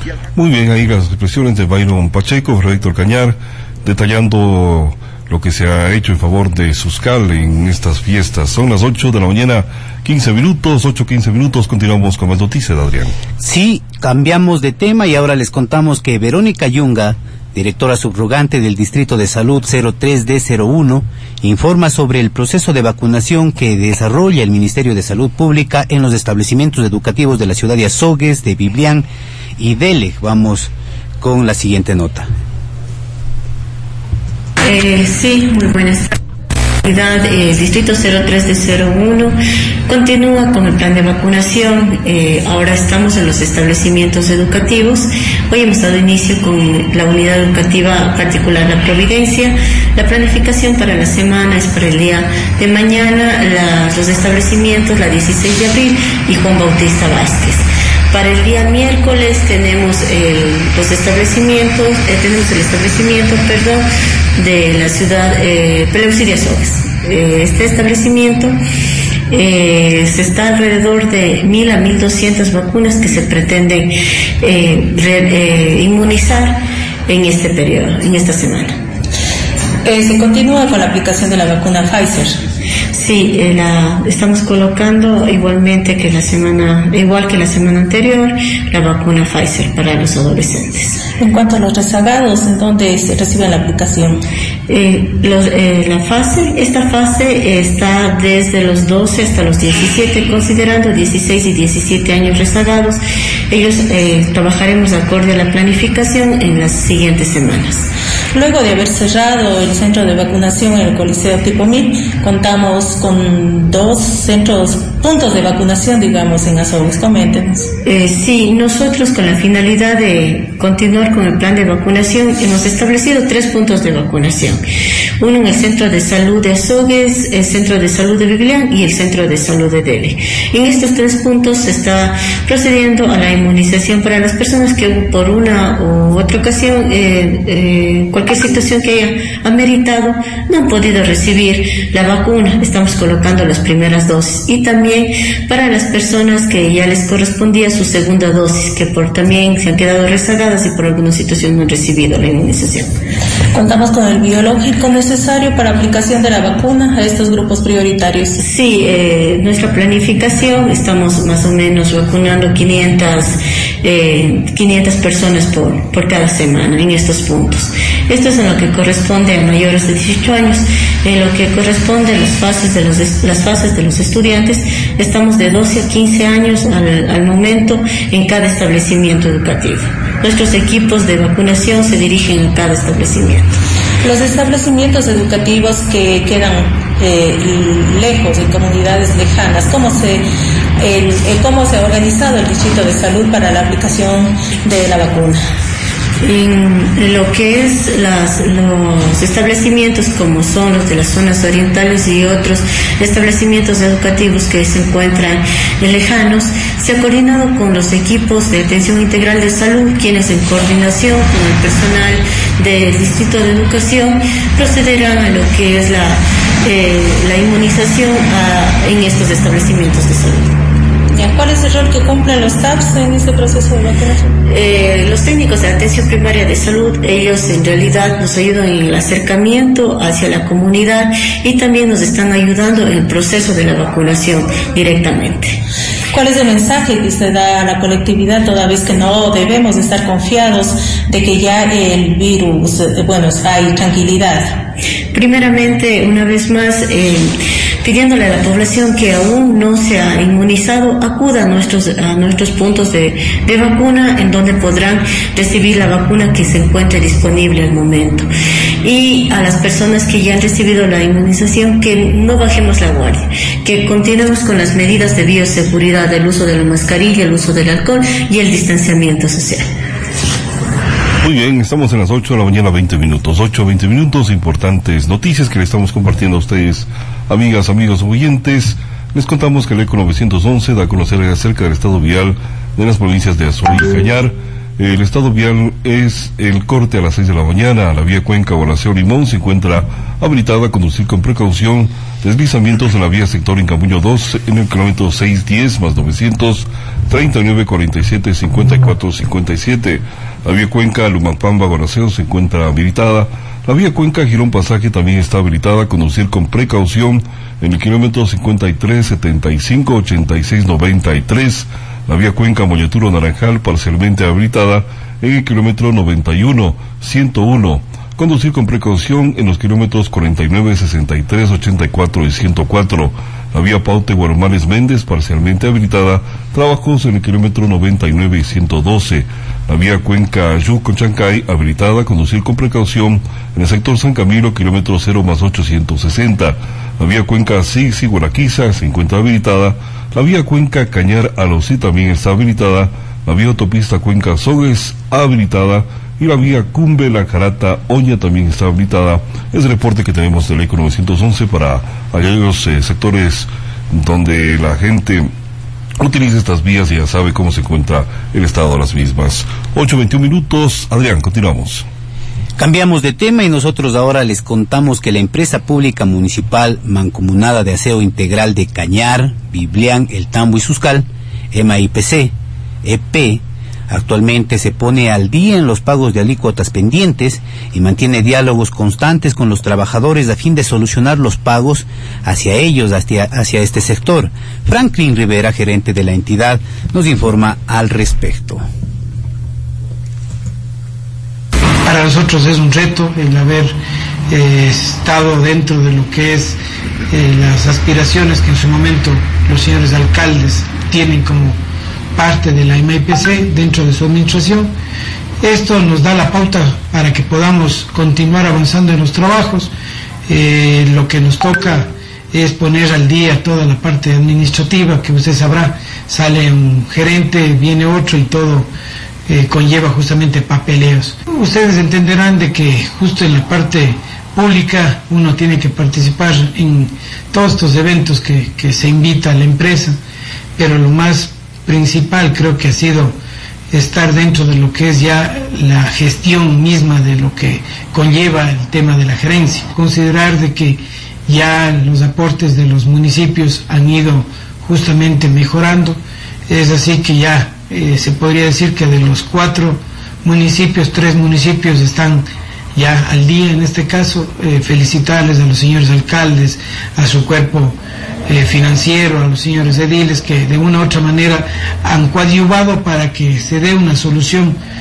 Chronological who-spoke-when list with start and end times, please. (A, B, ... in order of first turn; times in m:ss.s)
0:00.3-0:13.2 A
0:13.4-0:32.3 B
0:34.6-0:36.1 C
0:36.8-1:08.6 C
1:09.3-1:18.8 C
1:19.8-1:22.4 D
1:22.9-1:31.0 C
1:31.2-1:34.2 D
1:34.7-1:47.9 C
1:48.3-1:57.7 D
1:57.8-2:04.6 C
2:05.2-2:32.9 C
2:33.5-2:38.4 D
2:38.4-3:03.6 C
3:04.0-3:10.2 D
3:10.8-3:15.4 D
3:16.2-3:40.5 C
3:41.1-3:44.3 D
3:44.4-3:55.6 C
3:56.1-4:04.6 D
4:05.1-4:18.3 C
4:18.8-4:29.7 C
4:31.2-5:55.3 A
5:56.0-6:01.8 A
6:02.6-6:28.6 B
6:31.8-6:33.8 E
6:34.3-6:36.6 E
6:37.1-6:41.6 E
6:42.2-6:44.7 E
6:45.4-6:49.7 E
6:50.3-6:58.7 E
6:59.3-7:10.0 E
7:10.6-7:13.2 E
7:13.7-7:44.6 E